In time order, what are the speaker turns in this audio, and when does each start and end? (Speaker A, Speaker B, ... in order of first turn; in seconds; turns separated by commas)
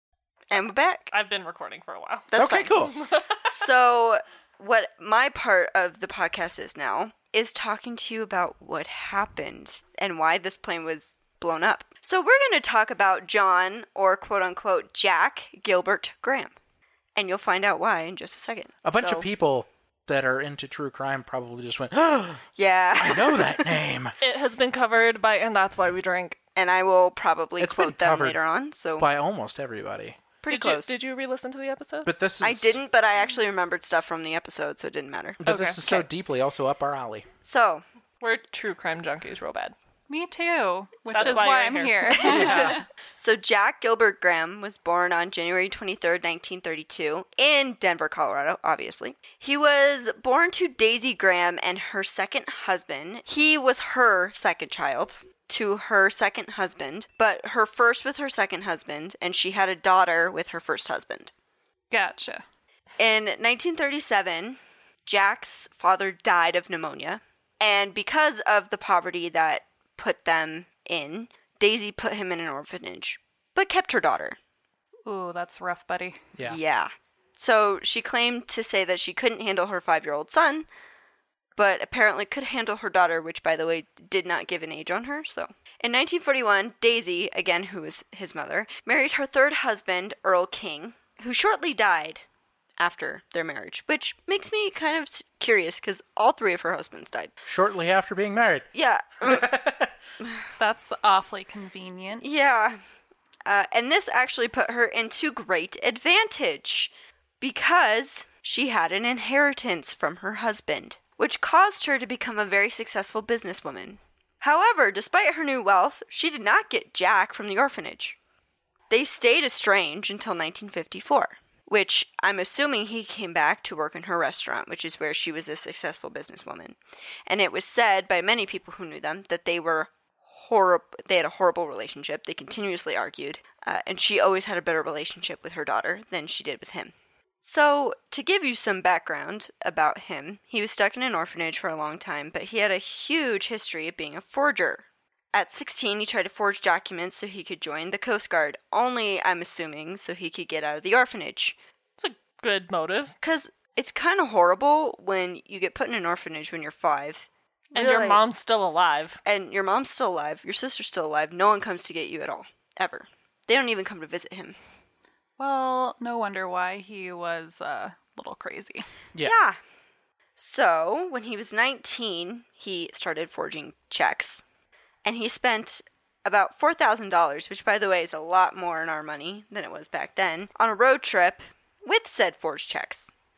Speaker A: 0.5-1.1, Speaker B: 1.1-2.3, Speaker A: 2.3-2.8, Speaker C: 2.4-2.9, Speaker B: 2.8-3.5, Speaker A: 3.5-16.5, Speaker A: 17.1-19.2, Speaker C: 18.8-22.4, Speaker A: 22.6-23.8, Speaker C: 23.0-24.1, Speaker B: 24.2-26.4, Speaker A: 26.6-29.1, Speaker C: 27.6-28.4, Speaker C: 29.0-30.2, Speaker A: 30.4-31.0, Speaker B: 30.5-32.1, Speaker C: 32.0-32.8, Speaker A: 32.4-36.0, Speaker C: 35.4-37.3, Speaker B: 35.4-35.8, Speaker A: 37.4-37.8, Speaker B: 38.2-39.7, Speaker D: 40.1-42.8, Speaker B: 41.1-42.7, Speaker A: 42.2-61.3, Speaker C: 42.2-42.8, Speaker D: 61.9-62.4, Speaker A: 63.0-74.4, Speaker D: 75.0-76.2, Speaker A: 76.4-80.7, Speaker A: 81.5-92.2, Speaker A: 92.8-97.3, Speaker C: 97.5-98.7, Speaker A: 98.7-99.5, Speaker C: 99.2-99.9, Speaker D: 100.6-102.2, Speaker A: 102.2-102.8, Speaker A: 103.5-118.2, Speaker A: 118.9-151.6, Speaker B: 152.0-153.1, Speaker A: 153.2-158.2, Speaker B: 157.7-159.2, Speaker A: 159.2-164.6, Speaker D: 165.4-168.9, Speaker A: 169.2-169.6, Speaker A: 170.4-174.4, Speaker A: 175.0-183.1